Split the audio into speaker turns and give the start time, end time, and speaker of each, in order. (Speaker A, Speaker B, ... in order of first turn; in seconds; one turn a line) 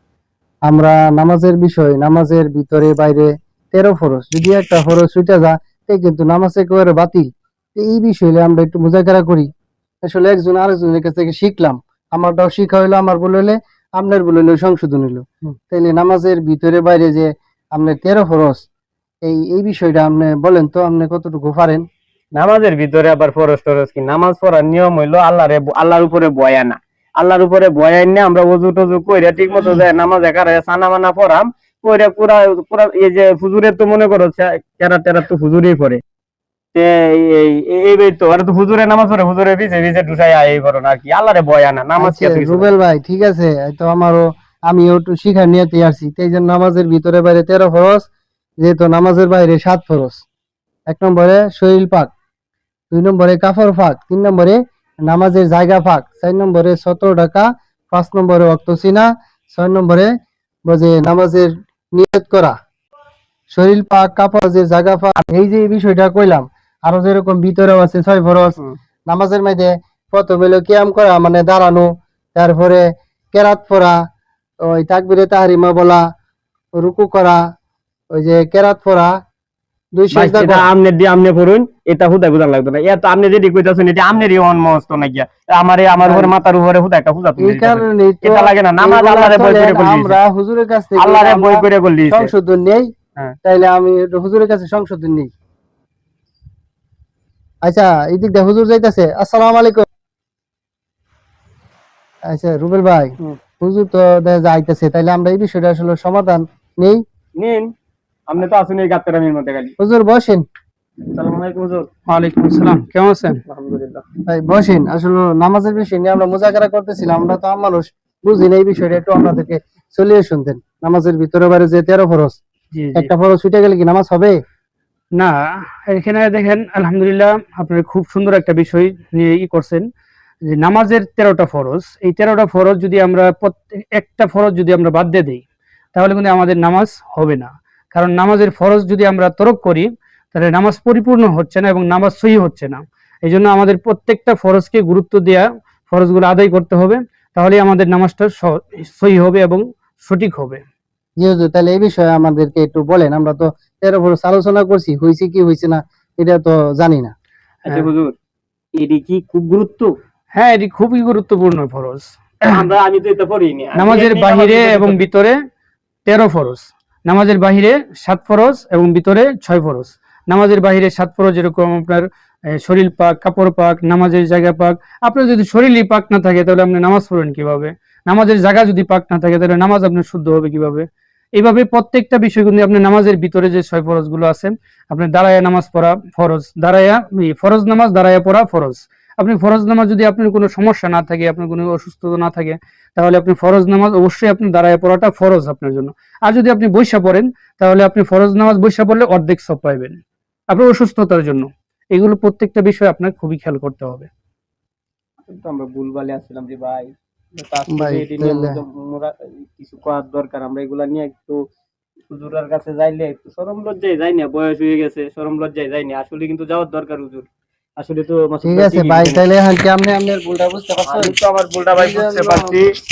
Speaker A: 0.7-9.5
Speaker A: 10.0-18.6
Speaker A: 19.2-21.9
Speaker B: 22.4-36.0
Speaker B: 36.7-42.7
Speaker A: 42.0-48.1
Speaker A: 48.6-50.2
Speaker A: 50.9-52.1
Speaker A: 52.9-60.1
Speaker A: 60.7-62.6
Speaker A: 63.5-74.0
Speaker A: 74.6-76.0
Speaker A: 76.8-77.4
Speaker A: 78.1-79.1
Speaker A: 80.0-80.7
Speaker B: 80.1-90.2
Speaker A: 86.0-86.3
Speaker A: 87.4-92.9
Speaker B: 91.0-92.3
Speaker A: 93.4-95.3
Speaker A: 97.6-99.8
Speaker A: 102.3-107.0
Speaker B: 107.4-107.7
Speaker B: 108.3-109.7
Speaker A: 109.8-110.5
Speaker B: 111.1-111.9
Speaker C: 112.1-113.4
Speaker B: 113.5-114.0
Speaker A: 114.3-122.4
Speaker C: 122.7-123.1
Speaker A: 123.0-124.4
Speaker C: 125.2-129.8
Speaker C: 130.5-135.4
Speaker C: 135.9-150.6
Speaker A: 151.2-157.1
Speaker B: 157.7-158.1
Speaker B: 158.8-159.9
Speaker C: 160.4-162.7
Speaker B: 162.5-165.0
Speaker C: 163.8-165.4
Speaker C: 166.1-180.9
Speaker C: 181.4-200.0
Speaker C: 200.5-204.1
Speaker B: 205.2-211.4
Speaker A: 207.7-208.6
Speaker B: 212.1-217.3
Speaker B: 217.8-219.2
Speaker A: 218.4-221.2
Speaker B: 220.9-222.6
Speaker A: 221.8-222.6